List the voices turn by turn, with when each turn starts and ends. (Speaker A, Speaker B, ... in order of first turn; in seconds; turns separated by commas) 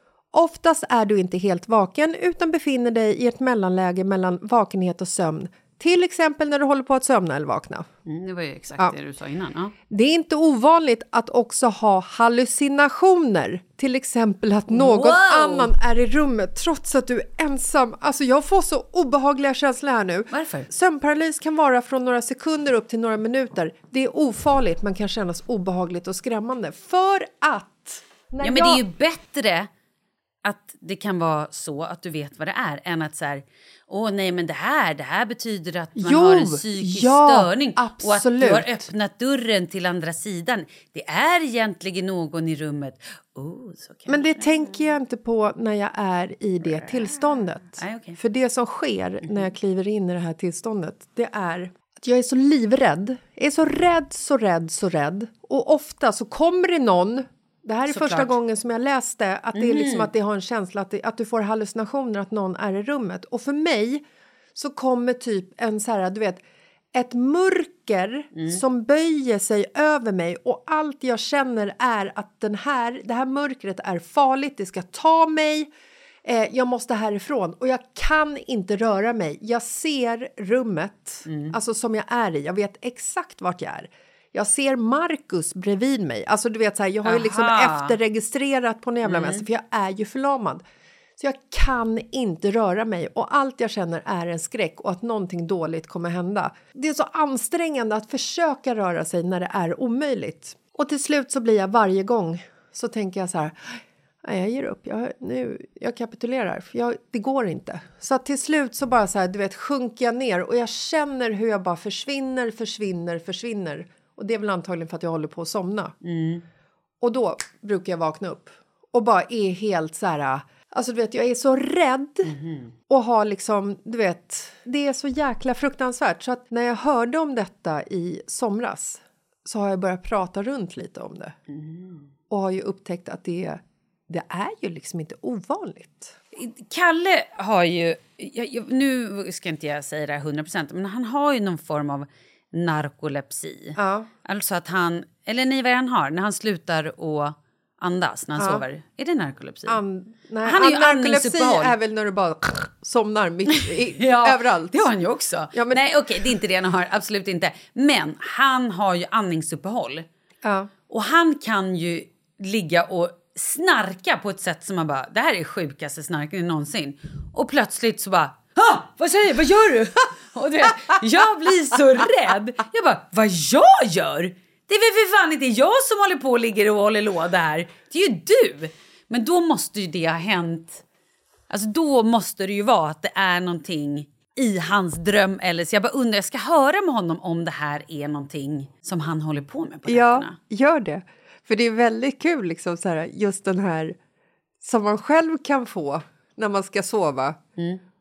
Speaker A: 0.3-7.8, Speaker B: 8.1-9.7, Speaker A: 9.9-28.9, Speaker B: 14.7-15.7, Speaker B: 20.3-20.6, Speaker B: 28.4-29.7, Speaker B: 30.4-44.8, Speaker A: 35.9-38.9, Speaker A: 44.1-64.0, Speaker B: 47.8-48.1, Speaker A: 64.5-66.4, Speaker A: 66.9-75.7, Speaker A: 76.2-90.6, Speaker B: 89.0-89.4, Speaker A: 91.2-115.9, Speaker B: 116.0-116.4, Speaker A: 117.0-131.3, Speaker B: 122.3-122.7, Speaker B: 131.5-132.1, Speaker A: 132.3-136.2, Speaker B: 136.3-149.7, Speaker A: 143.8-144.1, Speaker A: 148.3-148.7, Speaker A: 149.7-154.9, Speaker B: 150.5-151.6, Speaker B: 154.0-160.1, Speaker A: 155.5-156.4, Speaker A: 160.4-160.7, Speaker B: 160.9-180.8, Speaker B: 181.5-190.3, Speaker A: 189.8-193.9, Speaker A: 194.6-197.4